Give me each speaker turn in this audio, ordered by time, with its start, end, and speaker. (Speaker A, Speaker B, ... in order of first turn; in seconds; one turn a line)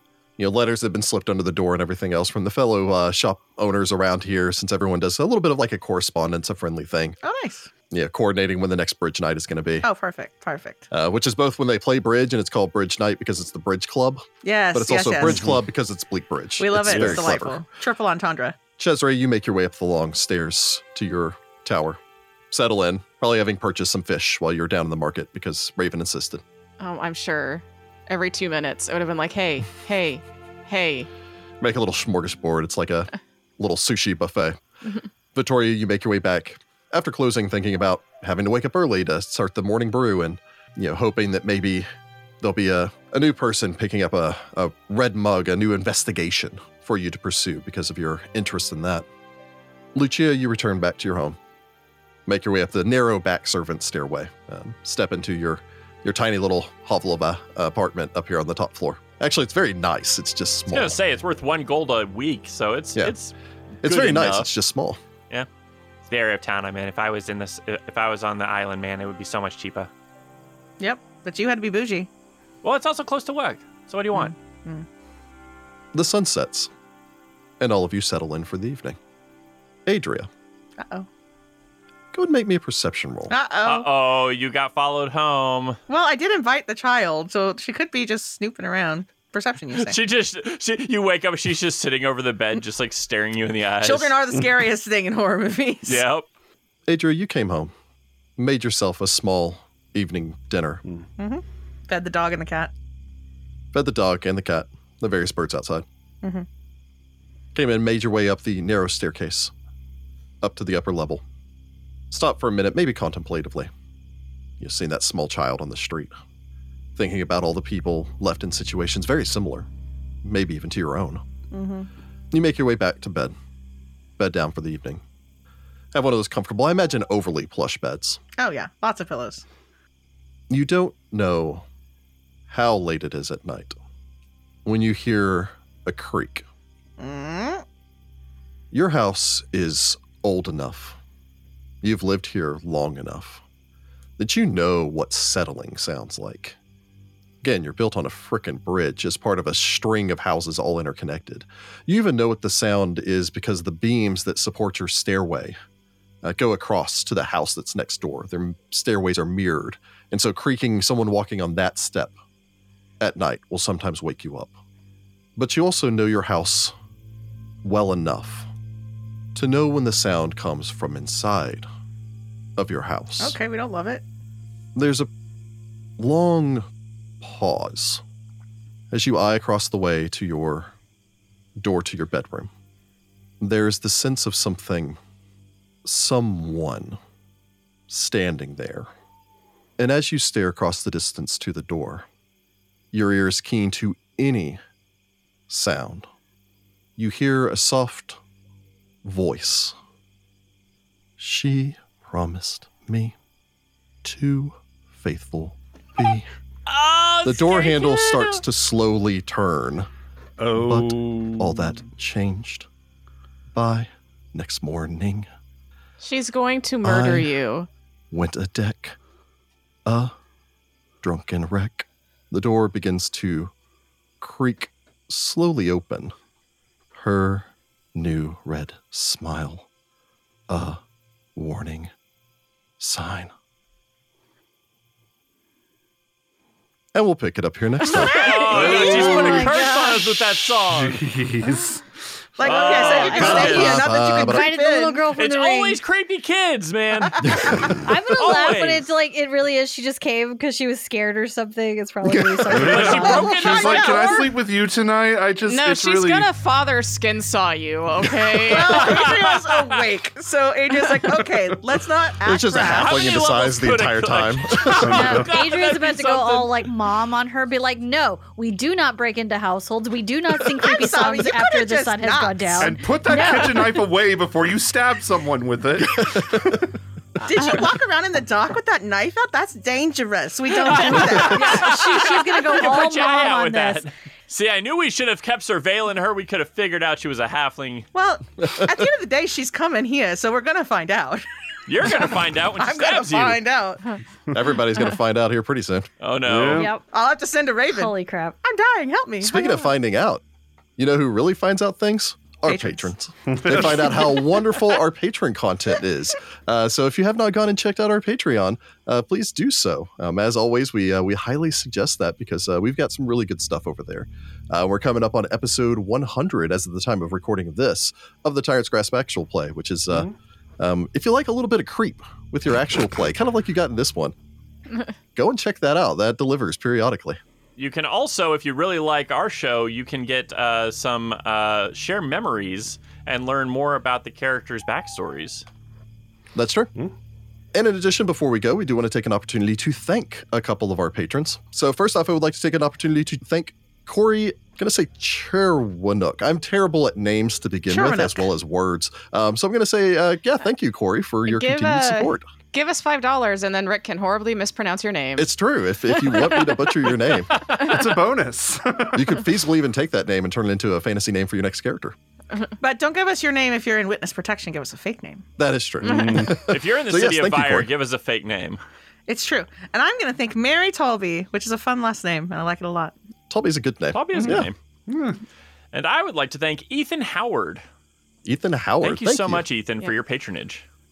Speaker A: 0.4-7.2
Speaker B: 7.2-7.7
Speaker A: 7.9-9.9
Speaker B: 9.8-10.9
Speaker A: 10.9-17.6
Speaker B: 14.4-15.4
Speaker C: 15.2-15.5
Speaker B: 16.6-18.6
Speaker C: 16.9-17.3
Speaker A: 18.8-22.0
Speaker A: 22.5-26.4
Speaker D: 26.8-31.1
Speaker A: 31.6-34.6
Speaker A: 35.3-41.9
Speaker A: 42.4-49.0
Speaker A: 49.9-51.4
Speaker A: 52.2-61.0
Speaker E: 60.7-64.5
Speaker A: 63.8-65.0
Speaker E: 66.0-69.9
Speaker B: 70.8-72.1
Speaker E: 72.6-74.3
Speaker B: 74.1-74.8
Speaker A: 75.9-76.7
Speaker A: 77.6-79.0
Speaker A: 79.8-80.3
Speaker B: 80.8-81.1
Speaker A: 82.1-83.3
Speaker B: 83.3-83.9
Speaker E: 83.6-85.8
Speaker B: 85.9-90.0
Speaker E: 89.7-94.2
Speaker B: 93.8-96.0
Speaker E: 95.8-96.2
Speaker A: 96.9-97.7
Speaker A: 98.4-100.8
Speaker B: 101.2-102.7
Speaker A: 103.7-105.8
Speaker A: 107.5-109.5
Speaker A: 110.4-111.2
Speaker A: 112.1-113.7
Speaker A: 114.6-116.1
Speaker A: 117.0-119.7
Speaker A: 120.2-121.2
Speaker B: 121.5-121.9
Speaker A: 122.3-123.3
Speaker A: 124.2-125.0
Speaker A: 125.9-128.2
Speaker B: 128.4-129.4
Speaker A: 130.5-131.6
Speaker A: 132.5-133.7
Speaker A: 134.6-136.4
Speaker B: 137.0-137.6
Speaker A: 138.7-141.0
Speaker A: 141.8-143.4
Speaker A: 144.2-146.6
Speaker A: 147.4-155.6
Speaker A: 156.2-162.1
Speaker A: 163.0-164.6
Speaker A: 165.4-166.7
Speaker A: 167.6-168.5
Speaker A: 169.3-171.7
Speaker A: 172.6-173.3
Speaker B: 173.2-174.0
Speaker A: 174.7-175.1
Speaker A: 176.0-176.7
Speaker A: 177.2-178.0
Speaker A: 178.9-180.7
Speaker A: 181.6-182.5
Speaker A: 183.4-185.0
Speaker A: 185.8-187.0
Speaker A: 187.9-188.9
Speaker A: 189.8-192.1
Speaker A: 192.9-194.6
Speaker A: 195.5-196.1
Speaker A: 197.0-198.2
Speaker A: 199.0-199.7
Speaker A: 201.2-203.1
Speaker A: 204.0-206.3
Speaker E: 206.7-208.4
Speaker A: 207.2-209.9
Speaker C: 210.4-211.8
Speaker A: 210.5-212.7
Speaker A: 213.5-215.3
Speaker D: 216.0-217.7
Speaker A: 216.8-217.3
Speaker A: 218.1-219.0
Speaker A: 219.8-220.1
Speaker A: 221.0-223.5
Speaker A: 224.2-226.1
Speaker A: 226.9-229.7
Speaker A: 230.5-230.8
Speaker A: 231.3-231.9
Speaker A: 232.8-233.3
Speaker A: 236.9-238.2
Speaker F: 237.8-240.2
Speaker E: 237.9-241.0
Speaker C: 238.5-239.6
Speaker C: 240.7-242.8
Speaker B: 242.4-245.1
Speaker E: 242.4-243.8
Speaker A: 242.9-244.5
Speaker F: 243.0-243.5
Speaker F: 244.2-245.8
Speaker E: 245.1-248.9
Speaker A: 247.2-247.7
Speaker F: 247.6-254.2
Speaker C: 252.0-256.3
Speaker E: 252.5-254.3
Speaker D: 255.5-258.9
Speaker B: 258.4-263.1
Speaker E: 258.6-259.7
Speaker A: 262.2-265.1
Speaker E: 262.7-266.5
Speaker F: 264.7-273.8
Speaker C: 264.8-265.3
Speaker B: 270.5-272.8
Speaker C: 272.6-276.7
Speaker B: 277.2-281.8
Speaker E: 280.5-287.9
Speaker F: 280.7-283.8
Speaker B: 287.9-291.2
Speaker A: 288.4-288.8
Speaker E: 291.7-293.4
Speaker B: 291.8-293.9
Speaker A: 294.3-295.9
Speaker E: 296.0-296.7
Speaker C: 296.2-296.7
Speaker F: 296.5-296.8
Speaker B: 296.9-299.7
Speaker F: 297.7-298.4
Speaker A: 299.2-300.2
Speaker A: 300.8-320.1
Speaker B: 302.4-302.9
Speaker C: 303.2-304.2
Speaker A: 320.6-324.1
Speaker A: 325.1-327.2
Speaker E: 327.6-335.4
Speaker A: 336.3-336.7
Speaker A: 337.5-352.2
Speaker B: 347.7-348.2
Speaker D: 351.3-355.3
Speaker A: 355.2-357.3
Speaker D: 356.1-356.6
Speaker C: 357.5-359.2
Speaker D: 357.6-357.9
Speaker A: 358.9-361.9
Speaker B: 362.6-365.2
Speaker A: 365.4-367.7
Speaker C: 365.8-366.4
Speaker D: 365.9-366.2
Speaker E: 366.3-368.6
Speaker B: 369.1-372.9
Speaker A: 373.3-374.5
Speaker E: 373.9-374.6
Speaker C: 374.2-375.2
Speaker E: 375.7-377.6
Speaker A: 378.2-379.4
Speaker E: 378.8-380.6